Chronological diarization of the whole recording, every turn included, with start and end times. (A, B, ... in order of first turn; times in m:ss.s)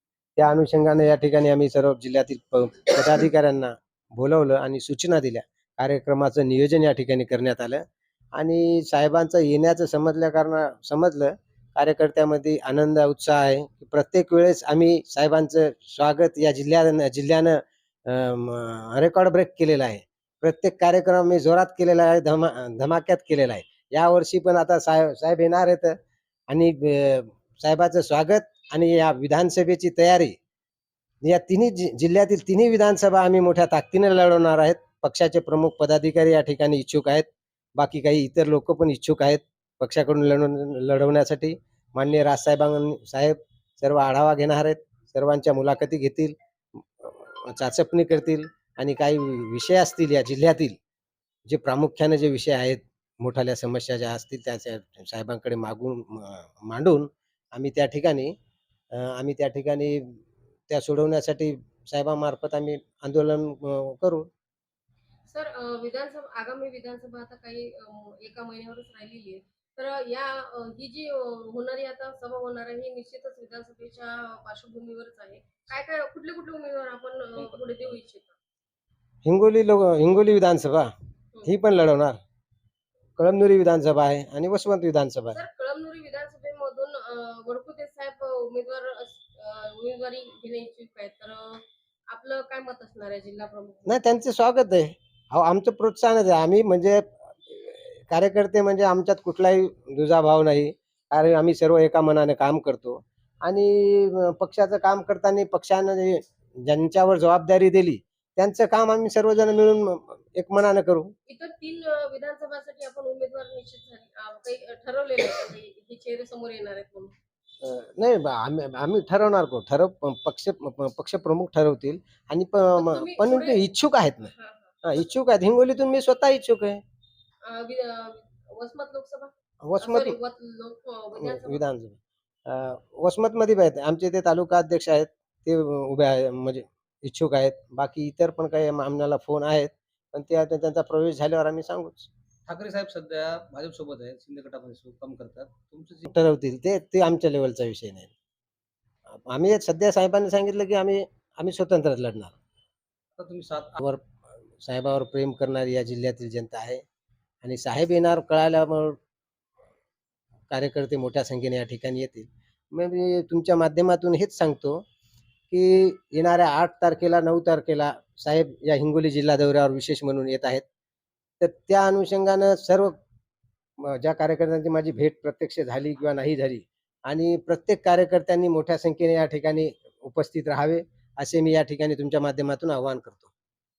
0:00.4-0:07.8 A
0:08.4-0:26.0 A
0:26.5-0:30.4 A
0:31.2-0:46.4 A
0:47.0-0:50.8 A
0:51.5-0:58.3 A
0:58.9-1:00.2 A
1:00.7-1:04.3 A
1:05.3-1:18.4 B
1:19.2-1:20.9 A
1:21.4-1:22.2 A
1:23.2-1:25.4 A
1:25.3-1:34.0 B
1:33.9-1:51.1 A
1:51.3-1:57.1 B
1:57.6-2:06.8 A
2:02.8-2:03.6 B
2:04.4-2:04.7 B
2:07.5-2:11.6 B
2:09.6-2:10.2 A
2:11.2-2:22.1 A
2:22.5-2:26.1 C
2:26.1-2:28.1 A
2:29.1-2:32.4 A
2:33.2-2:33.8 C
2:34.6-2:36.8 A
2:37.4-2:39.0 A
2:40.5-2:44.8 A
2:45.5-2:50.6 A
2:51.4-2:53.0 A
2:53.8-3:03.3 A